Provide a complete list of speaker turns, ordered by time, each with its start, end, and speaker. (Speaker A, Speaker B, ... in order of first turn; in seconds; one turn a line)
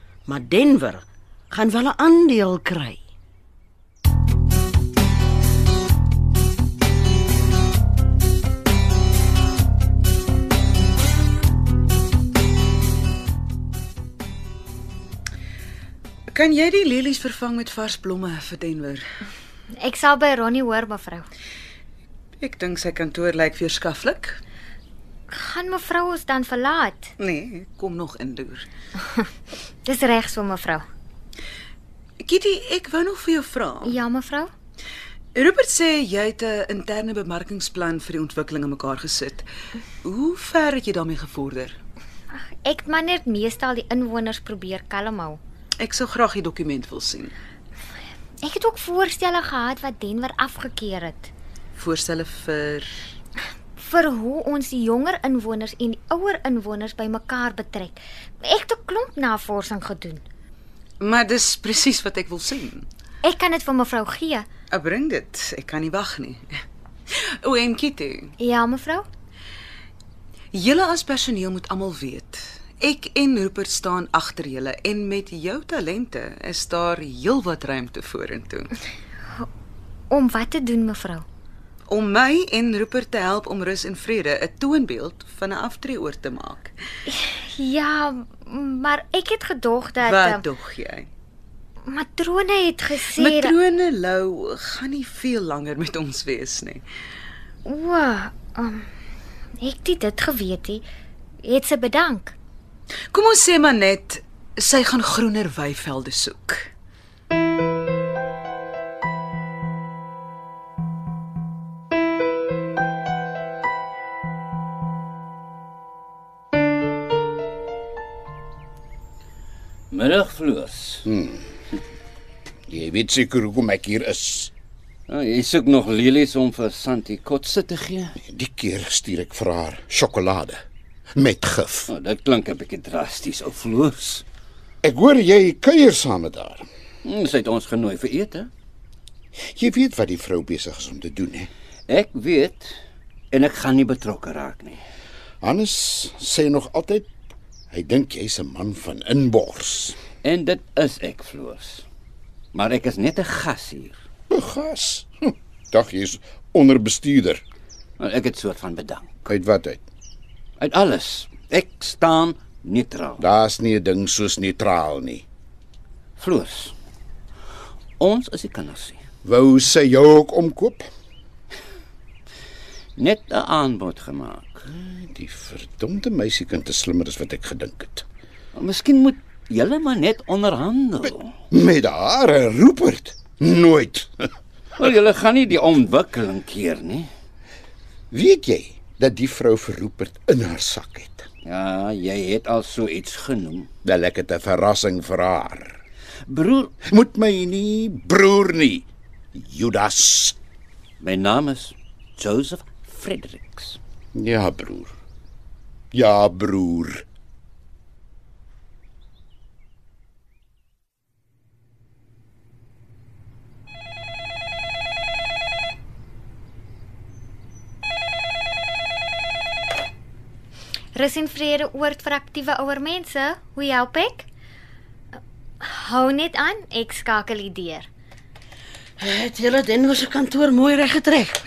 Speaker A: 0.3-3.0
Speaker B: 16.3-19.0
Speaker C: 19.7-21.3
Speaker B: 22.4-24.4
Speaker C: 25.3-27.1
Speaker B: 27.2-28.7
Speaker C: 29.8-30.8
Speaker B: 32.2-34.0
Speaker C: 33.8-34.5
Speaker B: 35.3-39.4
Speaker B: 40.0-41.8
Speaker C: 42.3-45.4
Speaker B: 45.8-47.3
Speaker C: 48.4-51.3
Speaker B: 51.7-53.0
Speaker C: 53.8-60.2
Speaker B: 61.0-62.9
Speaker C: 63.2-64.5
Speaker B: 64.7-66.6
Speaker B: 67.1-68.3
Speaker C: 68.4-69.0
Speaker B: 70.5-78.7
Speaker C: 80.1-81.2
Speaker B: 81.9-86.7
Speaker C: 87.1-90.4
Speaker B: 90.0-91.1
Speaker C: 91.8-93.5
Speaker B: 93.0-96.8
Speaker C: 97.6-98.8
Speaker C: 99.6-100.8
Speaker C: 101.4-102.3
Speaker B: 103.1-106.7
Speaker D: 119.9-121.0
Speaker E: 121.0-121.4
Speaker E: 122.7-124.5
Speaker D: 125.1-128.1
Speaker E: 128.2-130.6
Speaker E: 131.1-131.9
Speaker D: 131.9-134.2
Speaker E: 134.8-136.7
Speaker D: 137.0-138.5
Speaker E: 139.5-141.5
Speaker D: 141.9-142.7
Speaker D: 143.3-144.8
Speaker E: 145.4-147.1
Speaker E: 147.7-150.0
Speaker D: 150.2-151.8
Speaker D: 152.5-153.9
Speaker E: 154.3-157.4
Speaker D: 158.0-159.2
Speaker E: 159.3-159.8
Speaker D: 160.6-163.2
Speaker E: 163.2-165.2
Speaker D: 166.2-166.7
Speaker D: 168.0-169.0
Speaker E: 169.2-170.9
Speaker D: 173.0-174.6
Speaker E: 174.7-178.0
Speaker D: 178.5-181.3
Speaker E: 181.5-184.3
Speaker D: 184.8-187.1
Speaker E: 188.1-191.3
Speaker D: 191.4-193.7
Speaker E: 193.8-195.8
Speaker D: 196.2-196.7
Speaker E: 196.8-200.3
Speaker D: 201.0-203.8
Speaker E: 204.1-204.9
Speaker E: 205.9-207.0
Speaker C: 220.9-224.3
Speaker C: 225.6-227.9
Speaker A: 229.0-231.4